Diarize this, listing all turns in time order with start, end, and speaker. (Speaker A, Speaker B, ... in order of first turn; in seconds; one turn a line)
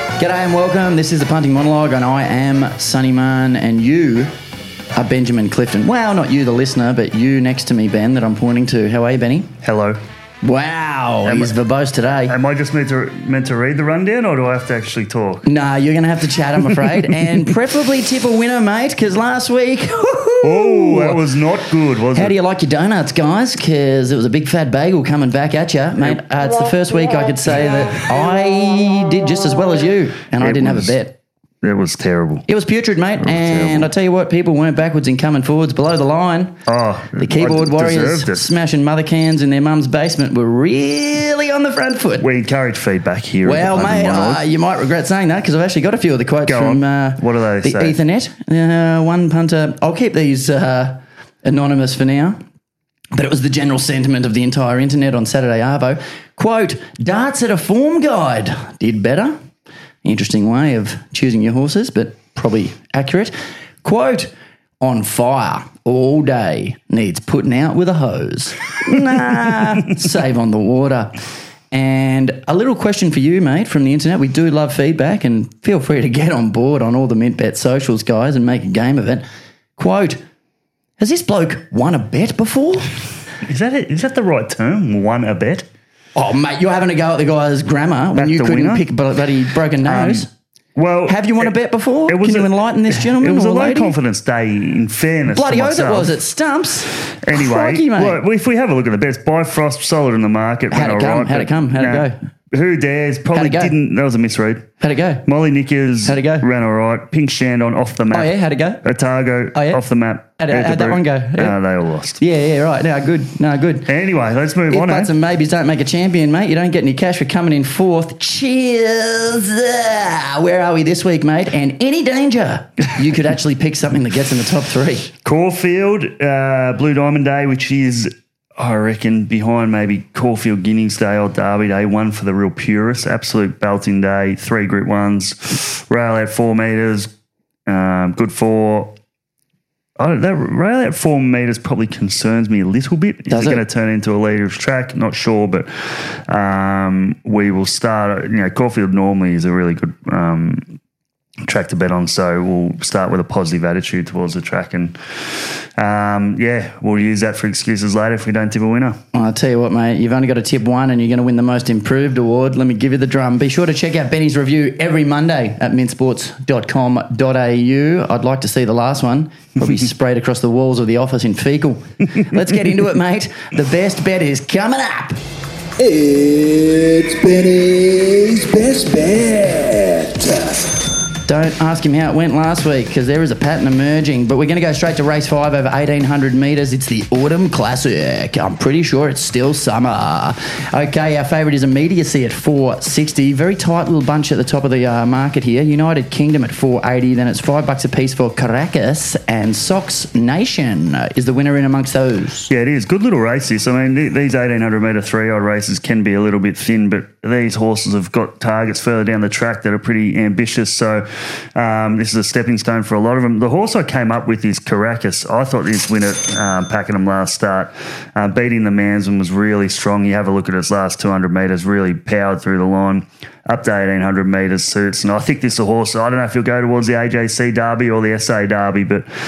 Speaker A: 0.2-4.3
Speaker A: 5.0-9.5
Speaker B: 9.6-10.0
Speaker A: 10.4-12.3
Speaker B: 11.2-11.5
Speaker B: 12.3-15.4
Speaker A: 15.4-21.2
Speaker B: 20.4-22.3
Speaker A: 22.1-31.2
Speaker B: 30.4-30.9
Speaker B: 31.6-32.5
Speaker A: 32.5-36.5
Speaker B: 33.2-33.9
Speaker B: 36.6-38.5
Speaker A: 37.2-42.3
Speaker B: 42.2-44.4
Speaker A: 43.4-52.4
Speaker B: 46.5-48.0
Speaker A: 53.1-59.3
Speaker A: 60.0-71.2
Speaker A: 71.7-79.2
Speaker A: 79.8-80.2
Speaker A: 81.0-83.0
Speaker B: 83.4-85.7
Speaker A: 86.1-90.3
Speaker B: 88.1-88.8
Speaker B: 89.8-91.5
Speaker A: 91.1-94.0
Speaker B: 92.1-96.1
Speaker A: 95.3-98.2
Speaker B: 97.2-104.7
Speaker A: 100.7-102.2
Speaker A: 103.3-103.7
Speaker A: 104.8-105.2
Speaker B: 105.2-108.3
Speaker A: 106.0-106.5
Speaker A: 108.1-108.8
Speaker B: 108.8-112.2
Speaker A: 109.5-109.8
Speaker A: 110.4-111.5
Speaker A: 112.2-113.9
Speaker B: 113.8-115.1
Speaker A: 114.7-125.1
Speaker B: 125.2-137.1
Speaker B: 137.7-138.9
Speaker B: 140.0-150.7
Speaker A: 143.3-143.6
Speaker B: 151.5-159.0
Speaker A: 159.1-175.2
Speaker C: 175.8-180.6
Speaker A: 181.2-202.5
Speaker B: 202.5-211.0
Speaker B: 211.6-229.1